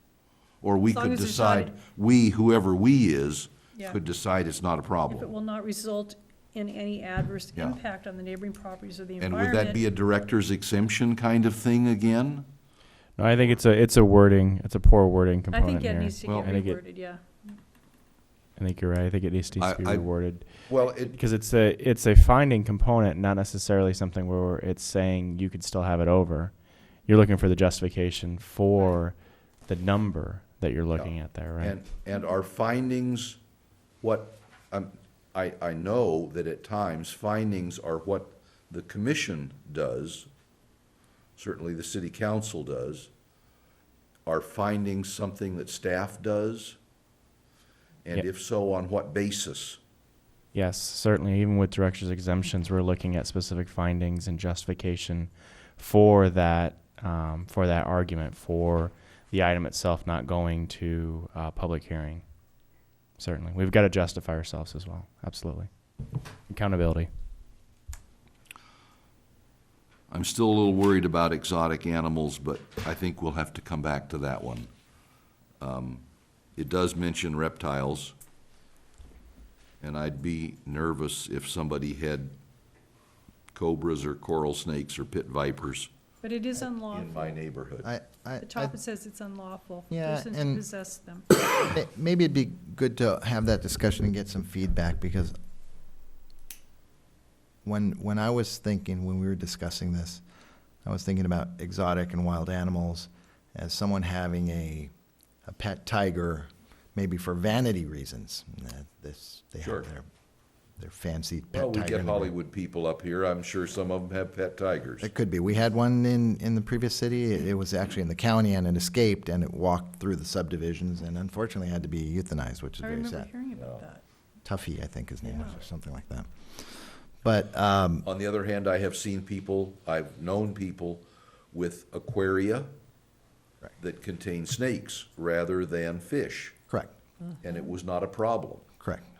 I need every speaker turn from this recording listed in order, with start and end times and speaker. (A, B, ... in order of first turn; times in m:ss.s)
0:00.6-0:05.3 A
0:00.9-0:01.8 B
0:05.1-0:09.8 B
0:09.2-0:12.5 A
0:13.2-0:16.8 C
0:15.5-0:17.6 B
0:16.2-0:16.5 A
0:18.6-0:31.8 C
0:19.6-0:21.2 A
0:30.9-0:33.4 A
0:34.0-0:40.3 A
0:41.4-0:43.1 A
0:44.2-0:46.8 A
0:48.0-0:49.8 A
0:50.5-1:07.1 C
1:10.1-1:14.7 A
1:15.6-1:16.0 A
1:16.6-1:18.1 A
1:19.8-1:22.3 A
1:23.5-1:25.9 A
1:26.2-1:27.4 B
1:26.9-1:27.9 A
1:27.8-1:28.7 D
1:28.4-1:31.3 B
1:29.9-1:30.6 D
1:31.7-1:35.3 D
1:37.6-1:40.2 D
1:40.8-1:44.9 D
1:45.4-1:50.0 D
1:49.6-1:49.9 A
1:50.8-1:52.3 D
1:51.5-1:55.1 A
1:55.0-2:03.3 D
2:02.8-2:04.0 B
2:03.5-2:03.9 A
2:04.4-2:08.1 D
2:05.2-2:05.6 B
2:08.0-2:12.7 A
2:13.8-2:16.6 A
2:17.4-2:18.7 A
2:18.8-2:19.0 D